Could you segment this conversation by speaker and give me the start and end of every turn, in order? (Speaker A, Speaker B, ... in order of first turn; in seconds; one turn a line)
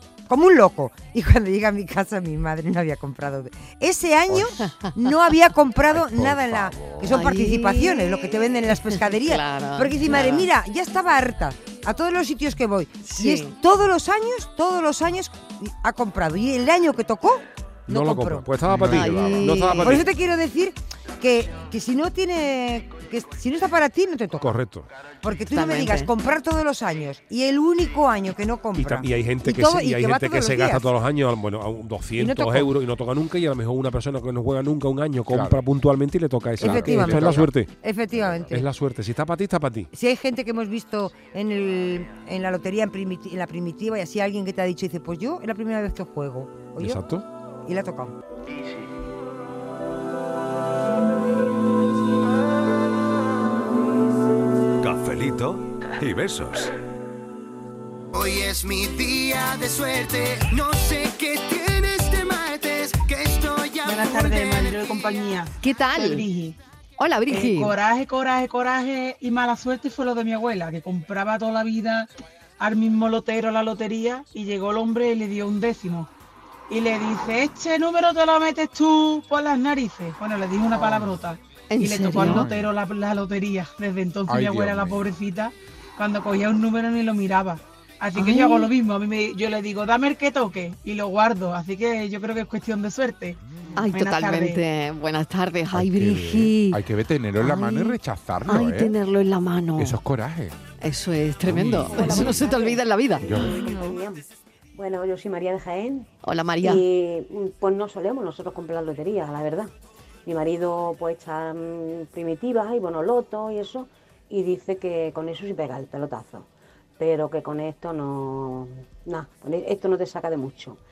Speaker A: 0.3-18.5
Speaker B: 5.9-7.2
Speaker C: 7.1-10.5
Speaker C: 13.0-13.6
Speaker D: 17.9-20.1
Speaker B: 18.6-19.7
Speaker C: 18.9-20.0
Speaker A: 19.8-24.5
Speaker D: 24.4-24.9
Speaker A: 25.2-30.9
Speaker C: 25.5-26.1
Speaker D: 28.8-37.7
Speaker A: 32.2-32.7
Speaker B: 35.3-35.6
Speaker B: 36.6-37.5
Speaker A: 36.6-38.7
Speaker B: 38.1-38.5
Speaker D: 38.5-39.9
Speaker A: 39.9-47.0
Speaker D: 46.8-47.2
Speaker A: 47.7-48.1
Speaker E: 58.1-65.0
Speaker F: 63.8-66.6
Speaker C: 65.6-66.3
Speaker C: 67.0-67.8
Speaker F: 67.3-72.1
Speaker F: 72.6-76.1
Speaker F: 76.7-93.4
Speaker C: 81.7-82.5
Speaker B: 82.2-82.7
Speaker B: 84.3-85.1
Speaker C: 88.2-88.7
Speaker C: 93.8-96.8
Speaker F: 93.9-94.6
Speaker B: 95.7-98.9
Speaker C: 97.4-98.0
Speaker C: 98.5-100.0
Speaker B: 99.8-100.6
Speaker C: 100.8-103.4
Speaker B: 101.5-102.5
Speaker G: 101.9-104.2
Speaker B: 103.2-103.6
Speaker G: 104.8-106.1
Speaker C: 106.2-106.8
Speaker G: 106.6-109.7
Speaker G: 110.3-116.5
Speaker G: 117.0-120.8